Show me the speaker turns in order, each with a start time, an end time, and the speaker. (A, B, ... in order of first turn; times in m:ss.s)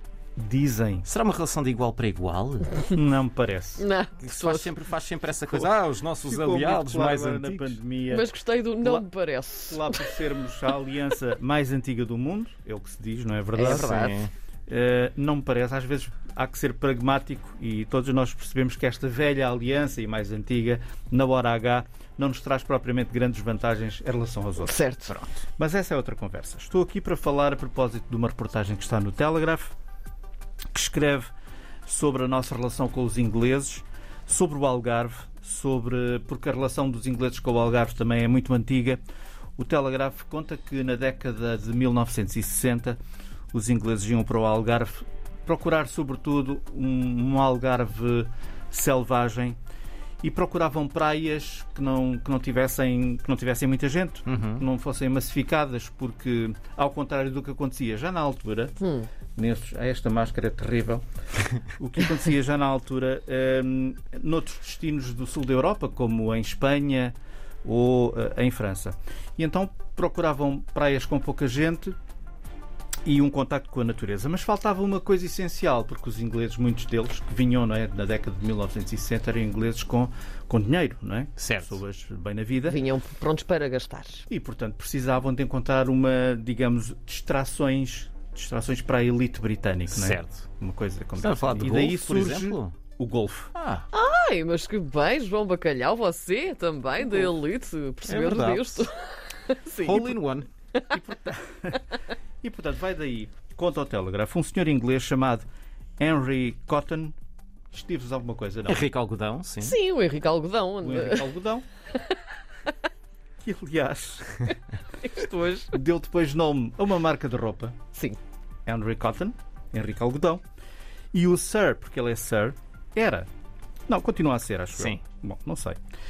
0:00.4-0:01.1 A
0:01.0-0:02.8 B
0:02.9-0:03.9 A
0:03.8-0:04.7 C
0:04.2-0:07.8 B
0:05.5-0:08.3 A
0:08.1-0:10.2 C
0:08.8-0:09.1 A
0:09.6-0:14.0 A
0:13.5-0:14.2 C
0:13.6-0:14.3 B
0:14.7-0:24.8 A
0:24.6-0:25.2 C
0:25.1-0:25.4 B
0:25.6-0:29.7 A
0:30.7-0:31.3 A
0:31.8-0:39.0 A
0:39.6-0:43.0 A
0:43.5-0:49.6 A
0:50.2-1:01.0 A
0:54.3-0:54.6 B
1:01.7-1:12.0 A
1:13.0-1:22.8 A
1:21.4-1:21.8 B
1:22.7-1:24.3 C
1:24.3-1:33.5 A
1:29.9-1:30.4 B
1:31.2-1:32.8 B
1:33.6-1:33.9 B
1:33.9-1:40.1 C
1:38.1-1:38.9 B
1:39.8-1:40.5 B
1:40.9-1:41.8 A
1:42.4-1:45.5 A
1:46.0-1:47.2 A
1:47.7-1:48.8 A
1:48.7-1:49.8 B
1:49.6-1:51.4 C
1:50.8-1:51.7 A
1:53.4-1:54.6 A
1:55.0-1:55.8 C
1:55.7-1:57.8 A
1:58.7-2:00.4 A
2:01.1-2:03.3 A
2:03.9-2:05.8 A
2:04.8-2:05.0 B